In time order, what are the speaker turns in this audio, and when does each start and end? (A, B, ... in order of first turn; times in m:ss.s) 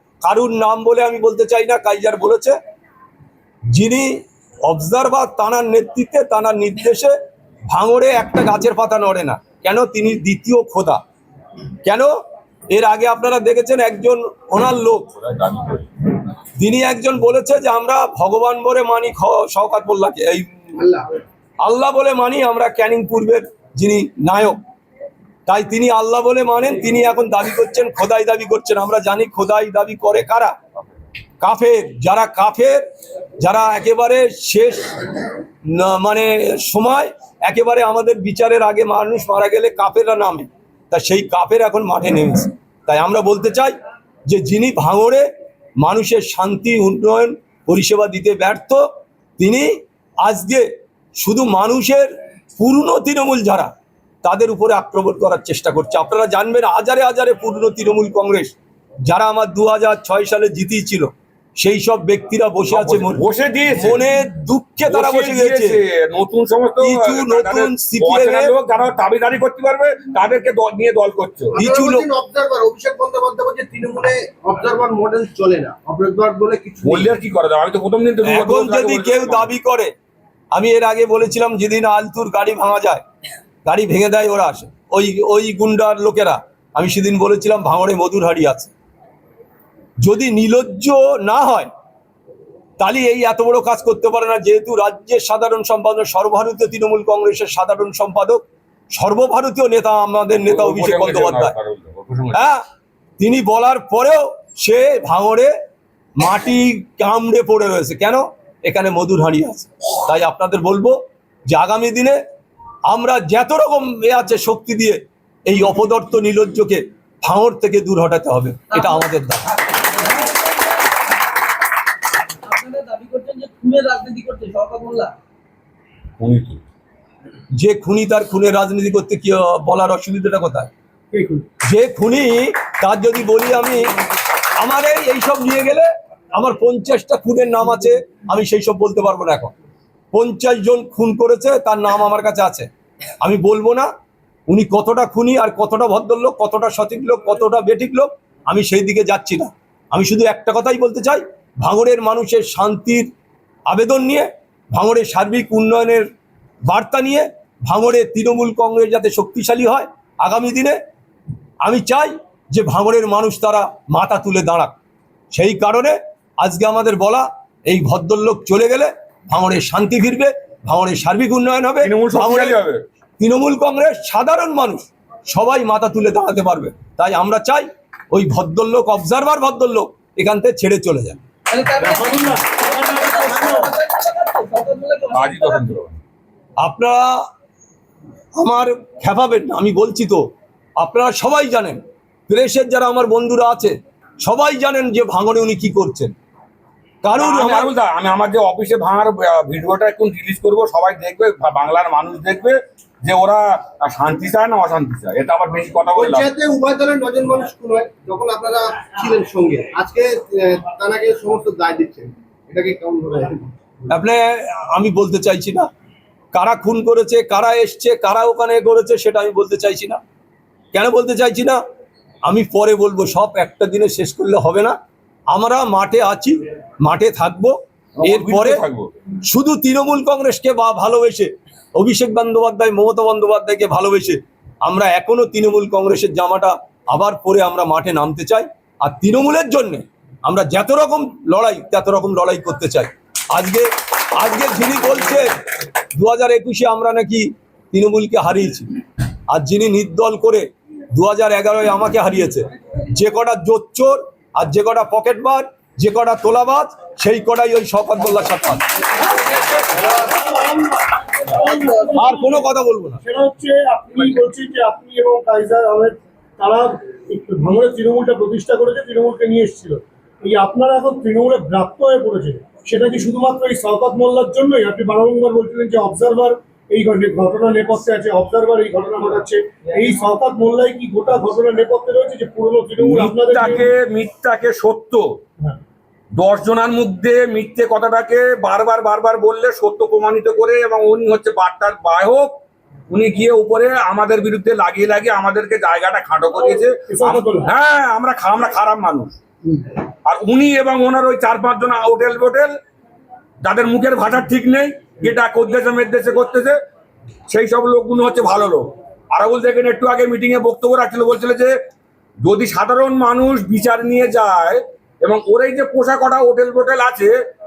0:00.2-0:02.6 A
0:03.7-0:07.1 A
0:07.7-0:11.0 A
0:11.8-0:12.1 A
0:12.7-0:15.1 A
0:15.2-0:15.8 B
0:16.6-0:20.5 A
0:20.8-0:21.1 C
0:21.6-0:24.6 A
0:25.5-0:30.6 A
0:31.4-0:32.8 A
0:33.4-0:34.9 A
0:35.7-0:43.8 A
0:44.3-0:45.3 A
0:45.8-0:48.9 A
0:49.4-0:53.7 A
0:54.2-0:58.6 A
0:59.1-1:03.2 A
1:02.7-1:04.0 B
1:03.8-1:05.8 A
1:04.9-1:11.6 B
1:06.8-1:08.5 A
1:11.5-1:17.1 C
1:11.6-1:12.1 A
1:16.8-1:19.5 B
1:18.2-1:19.9 A
1:20.5-1:23.0 A
1:23.6-1:28.7 A
1:30.0-1:31.7 A
1:32.8-1:41.5 A
1:40.5-1:42.5 B
1:42.3-1:42.6 A
1:43.2-1:45.5 A
1:46.2-1:52.2 A
1:52.9-1:59.5 A
1:58.8-1:59.0 D
1:59.7-2:00.9 D
2:02.4-2:05.1 D
2:06.2-2:06.6 B
2:07.6-2:10.7 A
2:11.1-2:11.4 E
2:11.7-2:13.9 A
2:14.6-2:19.5 A
2:20.1-2:22.7 A
2:23.2-2:23.9 A
2:24.5-2:33.1 A
2:33.7-2:36.1 A
2:36.7-2:40.8 A
2:41.6-2:44.7 A
2:45.3-2:52.6 A
2:51.8-2:52.8 B
2:53.2-3:01.2 A
3:01.5-3:05.7 D
3:01.8-3:03.7 E
3:05.1-3:06.0 B
3:06.6-3:07.3 A
3:08.4-3:10.3 A
3:10.8-3:16.1 A
3:17.0-3:17.7 A
3:17.2-3:26.3 B
3:25.9-3:33.5 C
3:33.9-3:35.7 A
3:36.3-3:40.0 A
3:40.7-3:41.6 A
3:42.3-3:44.8 A
3:45.3-3:48.6 A
3:48.0-3:48.9 B
3:49.3-4:05.3 A
4:06.0-4:08.7 A
4:09.3-4:18.6 A
4:19.7-4:22.4 E
4:21.9-4:23.0 A
4:23.0-4:43.7 E
4:42.8-4:45.2 B
4:46.2-4:52.4 B
4:52.9-4:59.2 B
4:56.4-4:57.5 E
5:00.1-5:02.5 B
5:03.4-5:06.6 B
5:07.3-5:11.5 B
5:12.2-5:17.1 B